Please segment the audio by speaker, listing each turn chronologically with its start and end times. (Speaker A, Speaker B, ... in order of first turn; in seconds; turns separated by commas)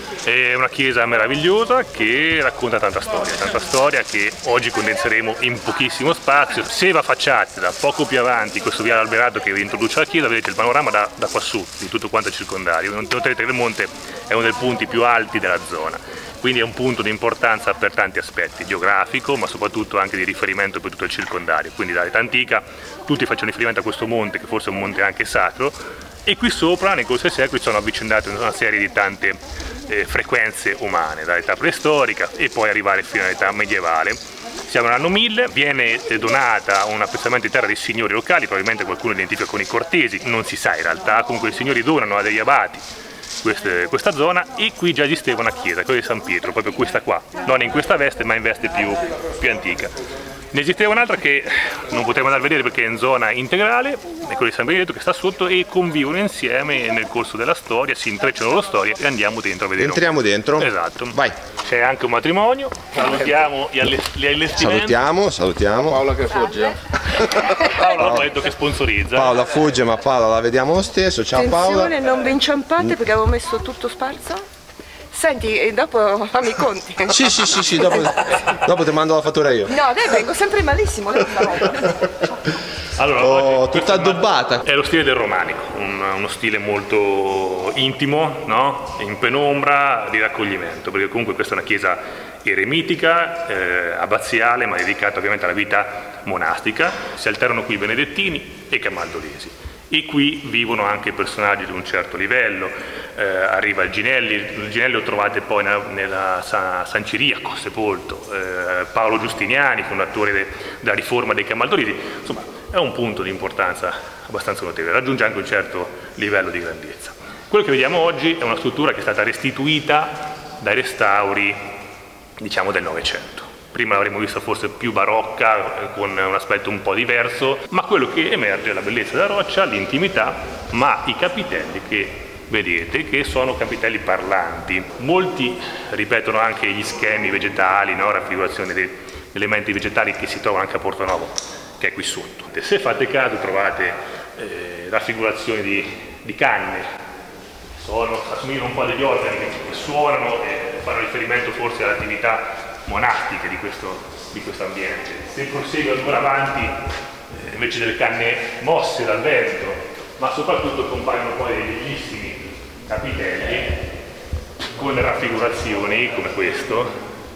Speaker A: 0.2-42.8, Speaker A: 43.4-50.0, Speaker A: 50.5-65.0, Speaker B: 59.8-61.4, Speaker B: 64.5-66.1, Speaker C: 65.8-67.8, Speaker A: 67.7-69.4, Speaker B: 68.0-68.3, Speaker B: 69.1-71.9, Speaker D: 71.3-74.4, Speaker D: 75.1-78.1, Speaker B: 77.1-79.8, Speaker D: 79.7-82.2, Speaker A: 83.0-121.6, Speaker B: 83.2-84.6, Speaker A: 122.4-146.9, Speaker A: 147.8-156.8, Speaker A: 157.3-163.8, Speaker A: 164.7-166.9